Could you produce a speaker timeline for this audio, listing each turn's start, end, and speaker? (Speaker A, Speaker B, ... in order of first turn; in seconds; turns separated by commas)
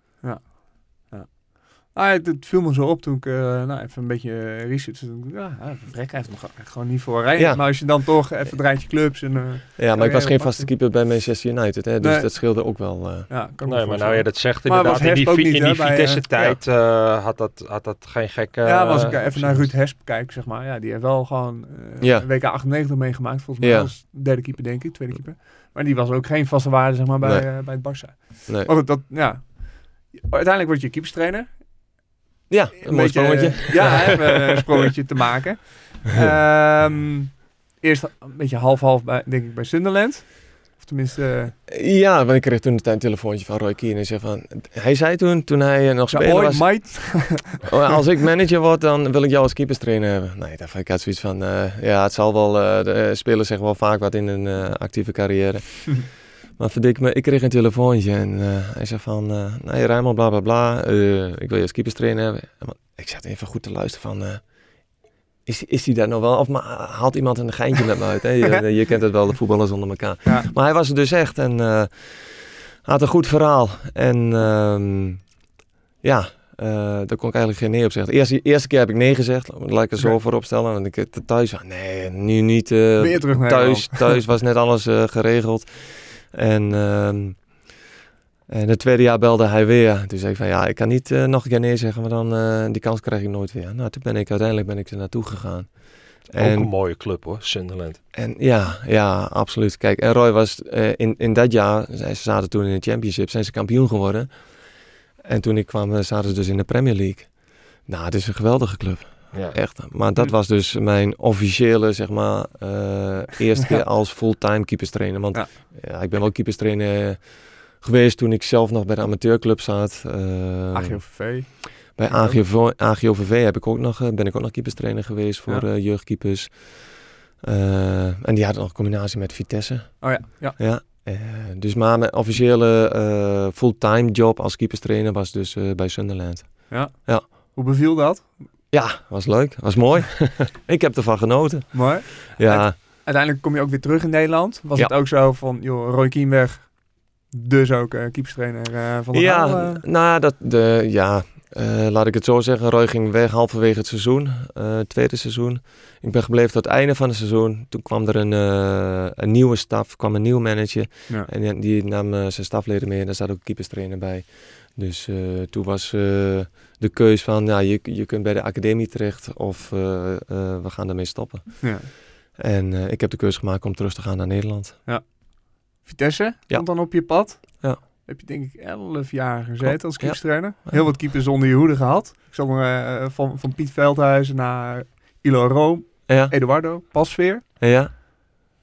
Speaker A: 0.2-10.7, Speaker B: 7.3-8.5, Speaker B: 9.8-13.3, Speaker A: 12.0-16.2, Speaker C: 13.6-19.7, Speaker A: 18.6-31.7, Speaker B: 22.0-22.3, Speaker B: 23.6-23.9, Speaker B: 27.2-27.9, Speaker B: 28.5-28.7, Speaker B: 32.5-34.2, Speaker A: 32.8-41.5, Speaker B: 41.7-64.4, Speaker A: 46.1-47.7, Speaker B: 65.4-75.2, Speaker B: 76.0-87.5, Speaker A: 83.0-84.2, Speaker B: 88.5-96.7, Speaker C: 96.3-98.0, Speaker B: 98.1-104.4, Speaker B: 105.2-137.2, Speaker C: 109.3-109.6, Speaker A: 120.7-122.4, Speaker A: 130.0-130.6, Speaker A: 136.7-138.4, Speaker B: 138.7-142.7, Speaker A: 141.7-149.8, Speaker B: 149.1-174.8, Speaker A: 171.6-171.9, Speaker A: 174.8-187.4, Speaker B: 177.4-177.8, Speaker B: 179.6-180.8, Speaker B: 186.1-186.3, Speaker B: 187.6-187.9